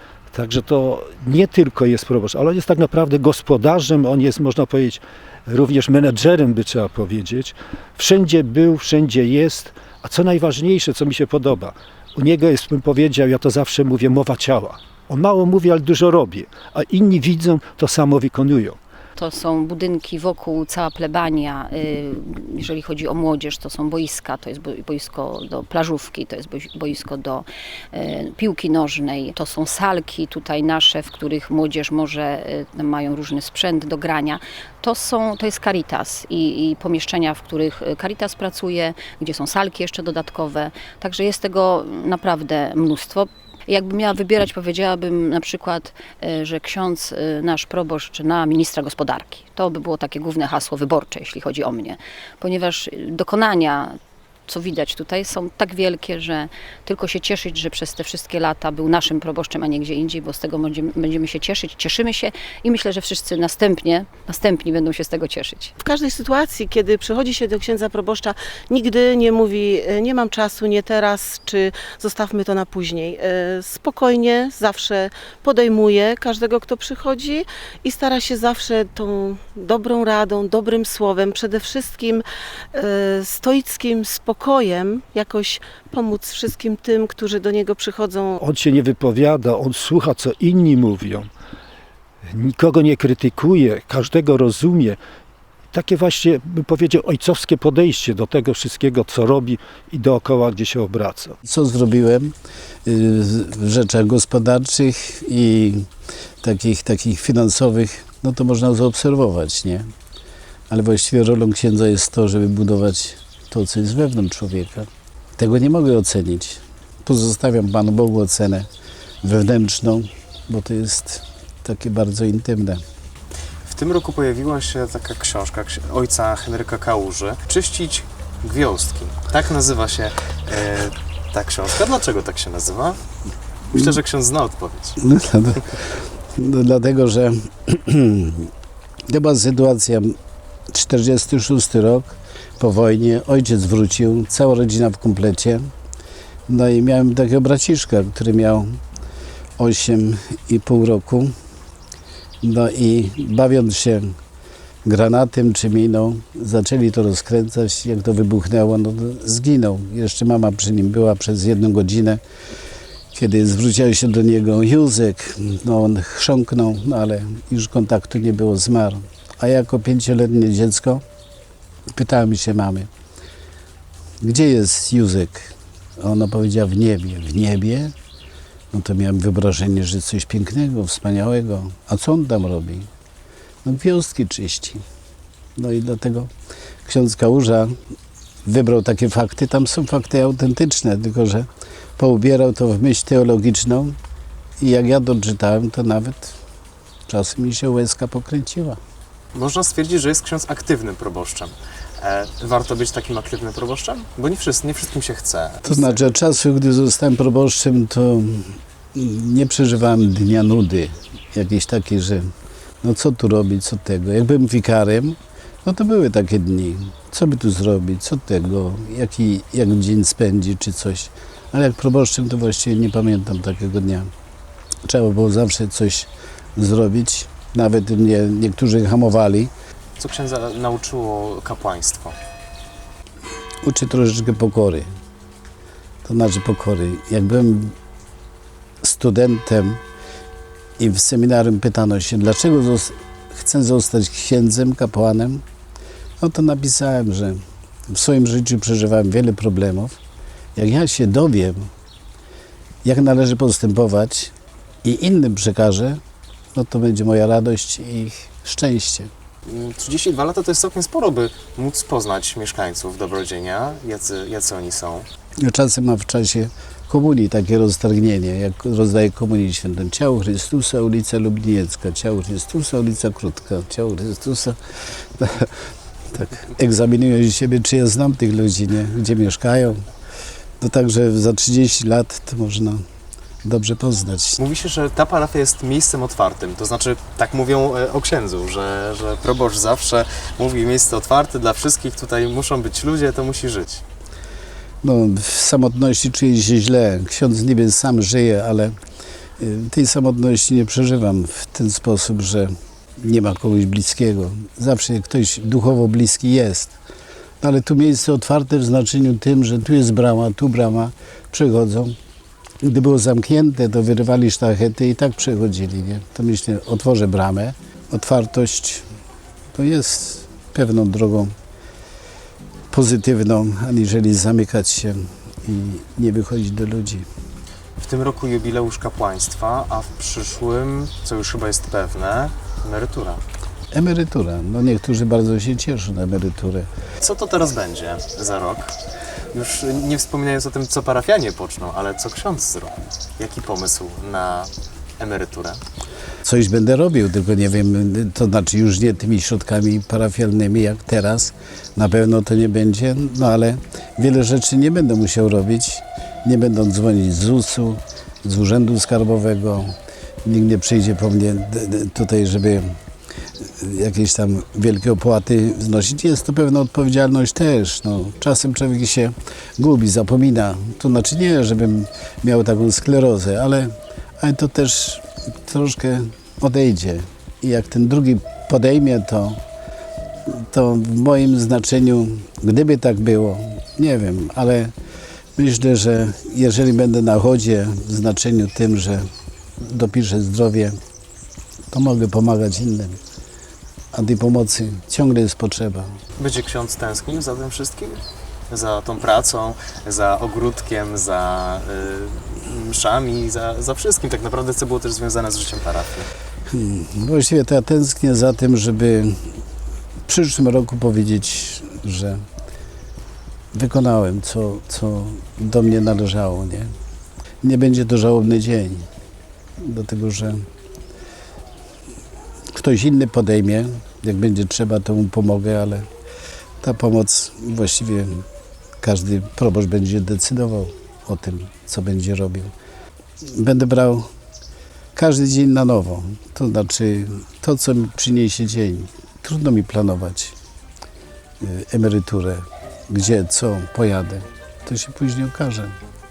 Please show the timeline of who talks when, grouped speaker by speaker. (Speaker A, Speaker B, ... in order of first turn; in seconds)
Speaker A: 0.3-18.8, 88.4-91.3, 92.3-95.0, 95.7-101.3
Speaker B: 19.2-65.7
Speaker C: 65.8-88.4
Speaker D: 101.4-102.3, 102.9-105.9, 106.4-109.9, 110.7-118.7, 119.2-122.8, 135.0-135.8, 136.3-138.5, 139.1-140.2, 140.7-145.7, 146.5-148.8, 149.6-151.3, 152.4-154.2, 154.8-162.2, 163.1-171.0, 171.9-172.9, 174.2-177.9, 178.7-182.9, 183.6-184.8, 185.6-186.3, 186.8-187.8, 188.4-194.0, 194.6-196.4, 197.1-198.8, 205.7-212.3, 212.8-224.1, 224.9-229.5, 233.6-234.9, 236.1-237.8, 238.8-239.8, 240.8-245.4, 246.2-250.0, 250.6-251.7, 252.8-254.3, 254.8-256.0, 256.6-259.1, 265.4-274.6, 275.2-275.5, 276.1-279.9, 280.6-282.8, 283.4-284.4, 294.8-298.8, 299.4-306.8, 307.4-312.0, 312.6-318.9, 319.5-321.3, 322.7-327.1, 333.7-336.7, 346.2-362.8, 363.4-379.4, 380.3-384.7, 385.4-389.1, 389.6-390.8, 391.7-393.0, 393.9-396.0, 406.5-409.2, 410.1-412.2, 413.5-416.7, 417.4-418.9, 419.6-420.5, 422.5-425.9, 426.6-428.2, 428.8-432.5, 433.2-434.1, 434.9-440.4, 441.4-445.8
Speaker E: 123.7-133.0, 133.7-135.0, 199.3-206.0, 230.0-232.2, 259.5-265.1, 284.4-293.8, 327.8-333.2, 337.0-338.8, 339.3-345.6, 396.2-406.1